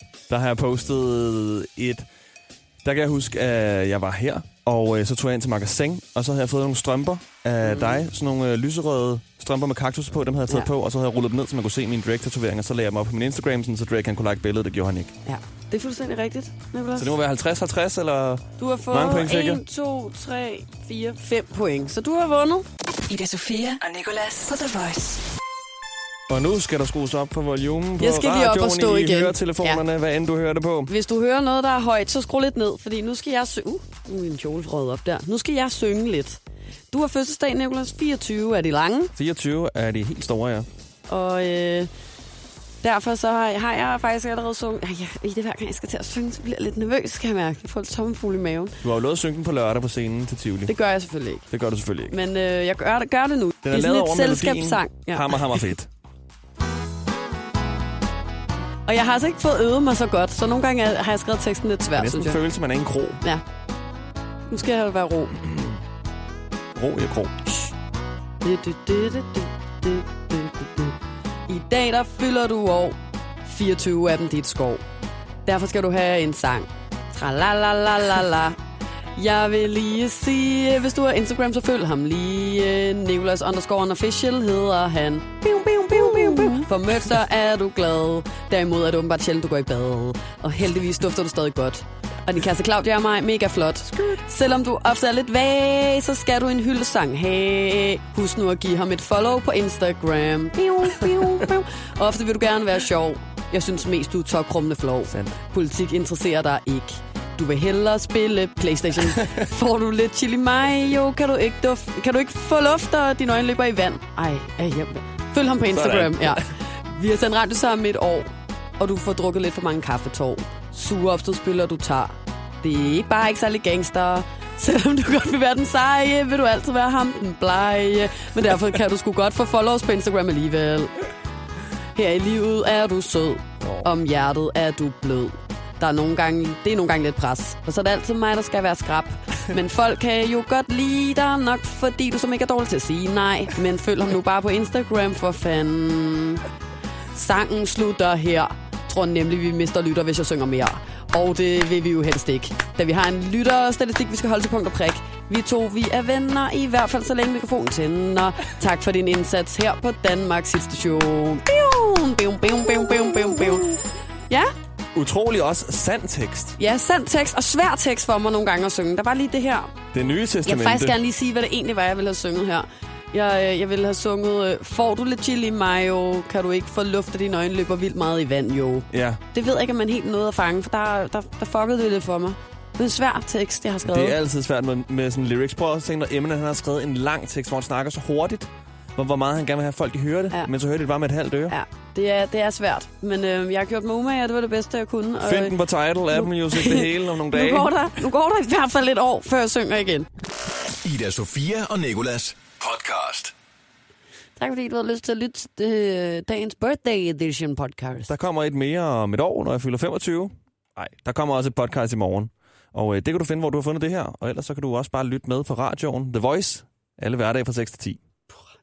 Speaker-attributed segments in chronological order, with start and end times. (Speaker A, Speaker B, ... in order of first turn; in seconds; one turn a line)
Speaker A: 0.3-2.0
Speaker A: 2.8-15.1
Speaker B: 7.6-8.0
Speaker B: 15.2-17.1
Speaker A: 16.9-19.6
Speaker B: 18.6-22.6
Speaker C: 23.1-25.2
Speaker A: 26.3-30.9
Speaker B: 28.0-29.8
Speaker B: 30.9-36.4
Speaker B: 36.9-39.1
Speaker A: 39.1-40.7
Speaker B: 41.1-41.9
Speaker B: 42.8-48.8
Speaker A: 48.8-50.7
Speaker B: 50.7-51.5
Speaker A: 51.5-52.1
Speaker B: 52.1-55.6
Speaker A: 53.6-55.9
Speaker B: 58.9-62.4
Speaker A: 61.9-63.2
Speaker B: 64.5-65.5
Speaker A: 66.8-67.3
Speaker B: 67.5-67.7
Speaker B: 68.4-70.9
Speaker B: 71.5-74.8
Speaker B: 75.4-78.6
Speaker B: 79.1-131.0
Speaker A: 85.6-86.7
Speaker A: 105.1-105.3
Speaker A: 115.7-116.5
Speaker B: 131.9-146.4
Speaker A: 133.6-133.9
Speaker B: 147.1-164.5
Speaker A: 164.9-166.6
Speaker B: 166.6-169.7
Speaker A: 169.9-171.0
Speaker B: 170.4-184.2
Speaker A: 178.9-179.2
Speaker A: 183.8-191.6
Speaker B: 191.5-200.1
Speaker A: 195.2-197.7
Speaker D: 200.8-203.3
Speaker B: 204.4-208.1
Speaker A: 208.1-218.0